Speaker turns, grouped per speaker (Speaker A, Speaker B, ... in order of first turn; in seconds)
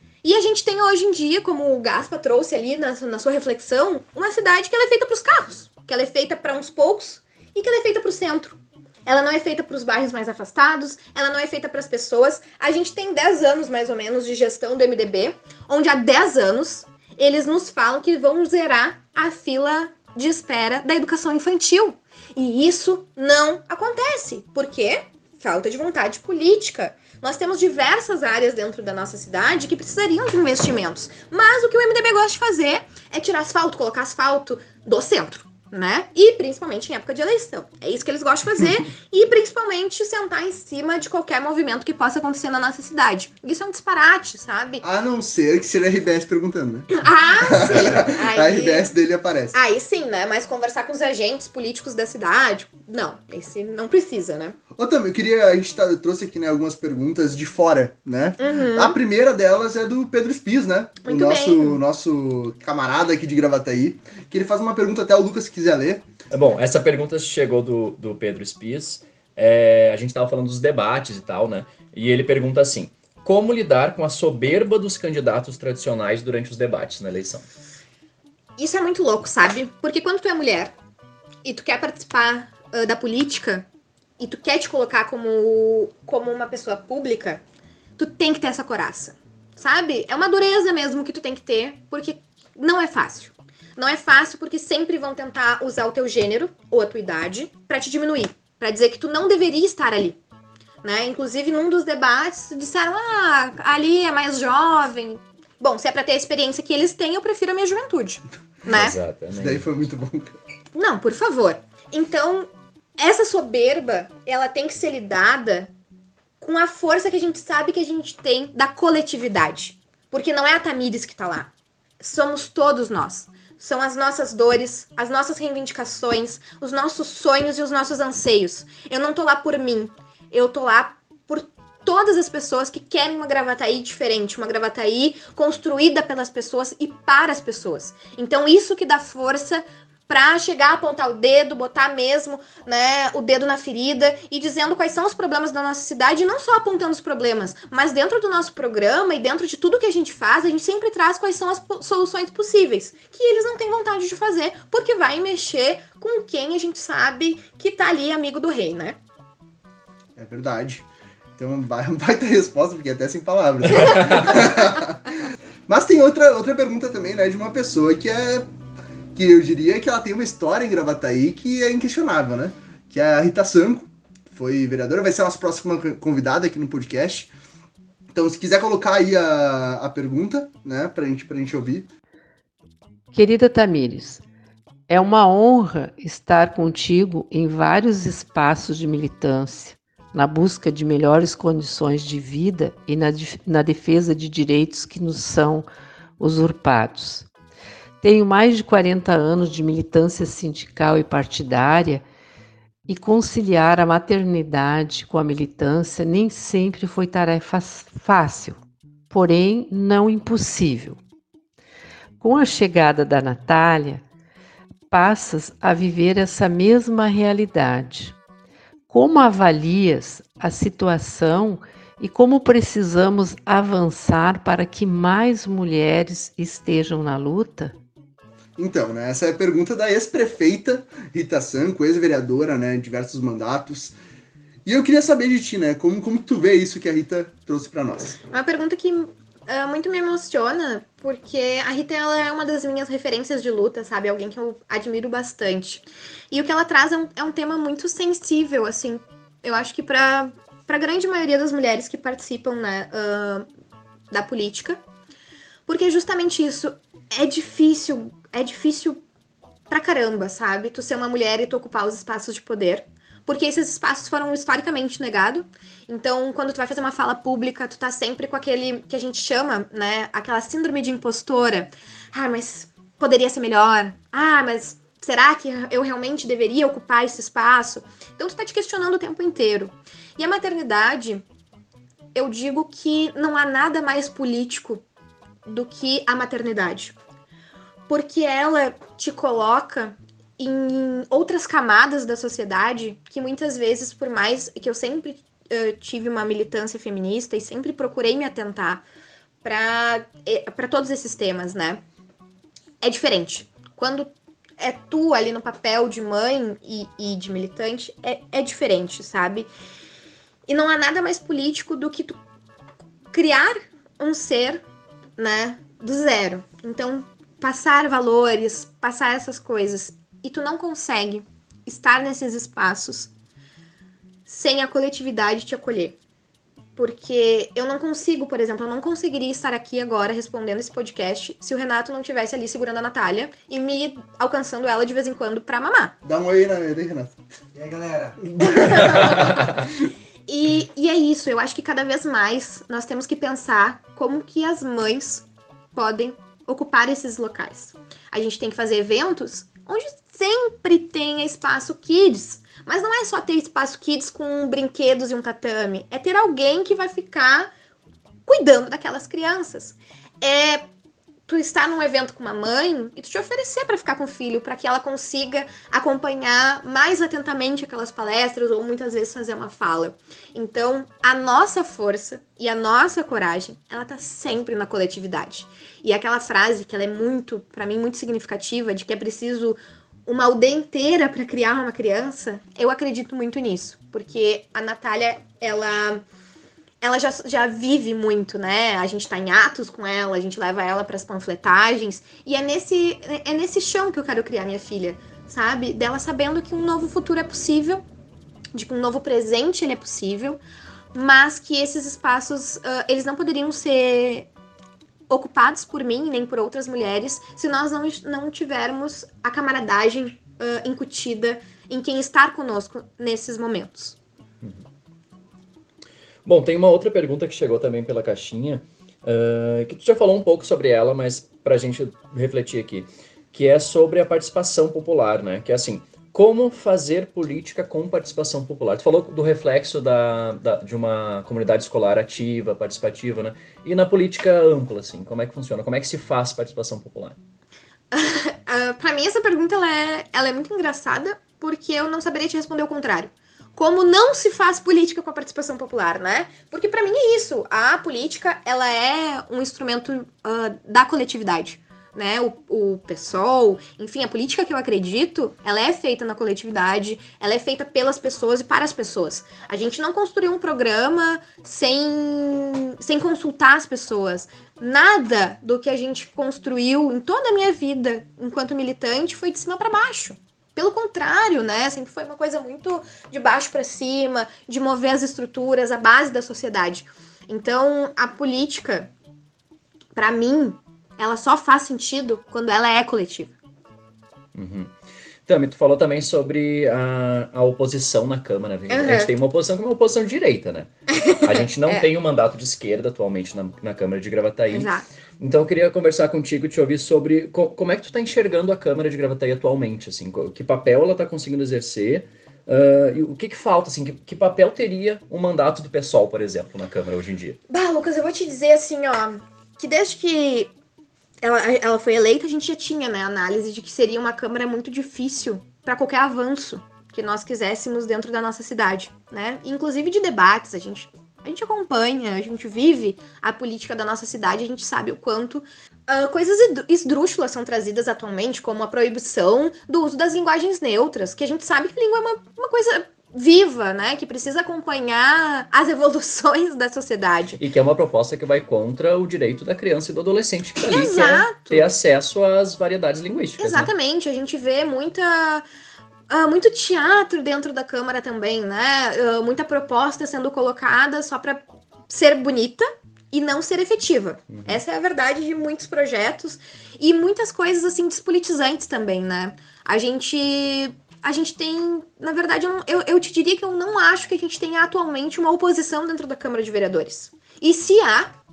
Speaker A: 0.2-44.8, 46.9-48.9, 49.5-54.6, 58.4-59.0, 61.0-61.8, 78.6-80.7, 81.4-83.7, 84.2-87.4, 88.0-100.2, 100.8-109.0, 110.7-115.7, 116.4-159.0, 238.3-253.5, 254.1-254.8, 255.7-259.0, 259.7-281.2, 282.1-284.8, 285.4-286.9, 287.9-298.8, 299.4-301.8, 302.8-309.5, 310.5-312.2, 313.1-314.6, 315.2-323.1, 324.2-326.0, 326.8-335.9, 338.5-339.3, 340.3-357.5, 358.3-360.6, 361.3-386.0, 386.8-397.8, 398.5-400.4, 400.9-404.3, 405.1-414.0, 437.9-478.9, 479.9-483.3, 488.7-489.1, 490.9-491.9, 494.5-494.8, 507.5-510.5, 511.2-537.4, 540.6-541.7, 543.4-545.4, 546.1-568.1
Speaker B: 44.8-46.9, 47.5-49.5, 54.8-66.0, 109.3-110.3, 160.2-160.8, 161.4-165.1, 165.7-168.5, 169.1-177.3, 178.1-181.9, 228.6-233.9, 234.7-238.2, 336.0-339.5
Speaker C: 66.3-77.5, 108.7-109.7, 416.2-437.2, 484.3-484.7, 485.3-507.4, 537.4-543.7, 554.3-554.6
Speaker D: 183.1-184.2, 184.9-195.7, 196.2-197.3, 198.0-202.0, 202.9-211.0, 212.2-214.0, 214.9-218.2, 218.9-227.8